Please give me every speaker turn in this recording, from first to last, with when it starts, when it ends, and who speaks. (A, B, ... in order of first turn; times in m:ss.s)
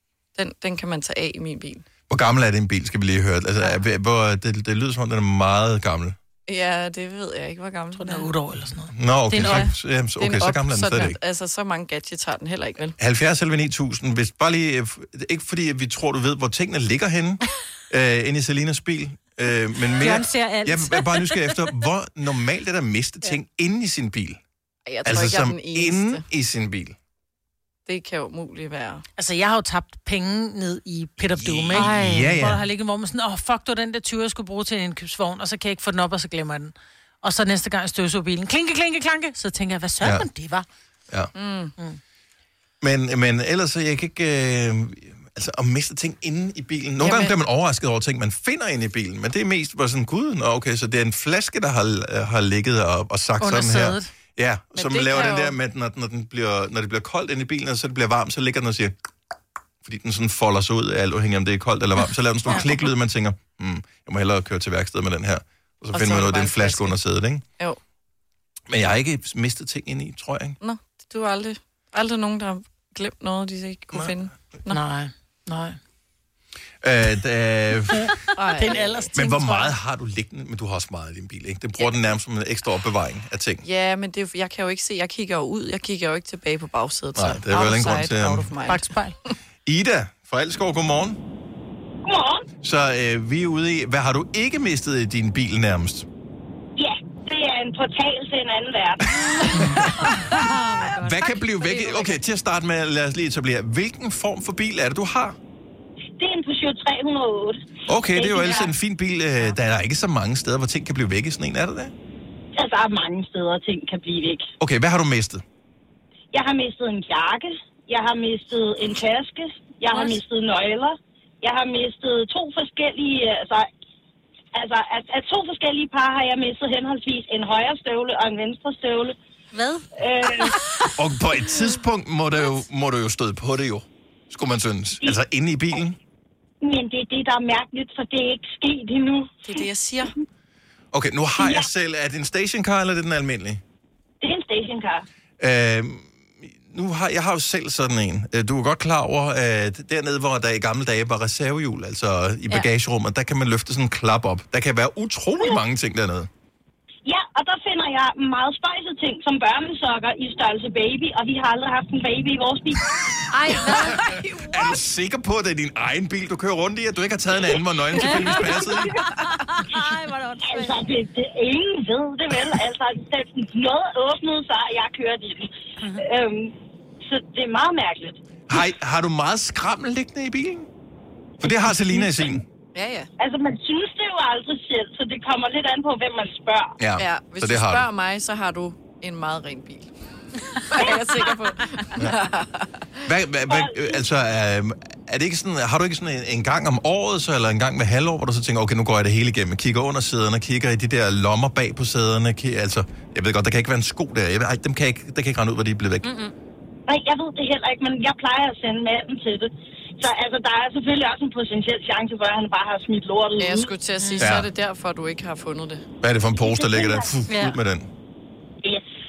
0:00.3-0:01.8 A
0:02.1-0:06.2 B
0:06.5-0:08.3 A
0:08.0-0:09.7 C
0:08.9-0:11.2 B
0:09.3-0:13.0 A
0:13.0-0:24.4 B
0:19.9-0:21.7 D
0:24.8-0:26.2 A
0:25.0-0:27.0 B
0:27.8-0:29.0 A
0:29.2-0:40.6 C
0:31.3-0:32.6 B
0:31.7-0:32.2 D
0:41.3-0:41.7 A
0:42.8-0:58.9 B
0:47.0-0:47.3 A
0:53.4-0:54.1 C
0:54.7-0:55.6 A
0:59.8-1:07.4 B
1:05.9-1:07.0 A
1:08.7-1:10.6 B
1:10.6-1:14.8 A
1:14.7-1:15.8 C
1:16.8-1:18.2 B
1:18.3-1:19.1 A
1:18.5-1:19.7 C
1:19.1-1:23.6 B
1:23.6-1:28.9 A
1:27.2-1:28.5 B
1:28.6-1:29.2 C
1:29.6-1:31.2 B
1:32.0-1:32.5 E
1:32.6-1:36.1 B
1:36.8-1:39.6 E
1:39.5-1:40.4 B
1:40.3-1:42.2 D
1:41.0-1:45.4 B
1:46.2-1:48.7 E
1:47.9-1:51.9 B
1:52.6-1:54.5 E
1:54.6-1:55.4 B
1:56.3-2:03.7 E
1:59.9-2:00.2 D
2:04.5-2:09.2 E
2:09.5-2:09.8 D
2:10.0-2:10.6 E
2:11.0-2:16.0 B
2:16.6-2:19.6 E
2:19.4-2:20.1 A
2:20.9-2:23.6 B
2:21.4-2:21.7 E
2:24.2-2:25.0 E
2:25.4-2:36.3 B
2:37.0-2:42.9 E
2:43.3-2:44.8 D
2:43.7-2:49.0 B
2:48.0-2:50.8 D
2:50.4-2:58.2 E
2:58.5-3:00.7 B
3:01.4-3:02.4 B
3:02.7-3:03.1 A
3:03.2-3:06.8 E
3:06.8-3:07.8 B
3:07.0-3:09.9 A
3:10.7-3:12.7 A
3:13.0-3:26.1 B
3:13.5-3:13.9 E
3:26.0-3:26.3 D
3:26.9-3:33.7 E
3:33.4-3:35.8 A
3:34.0-3:34.2 C
3:34.2-3:34.5 B
3:36.0-3:37.9 B
3:37.3-3:37.6 D
3:38.6-3:39.0 E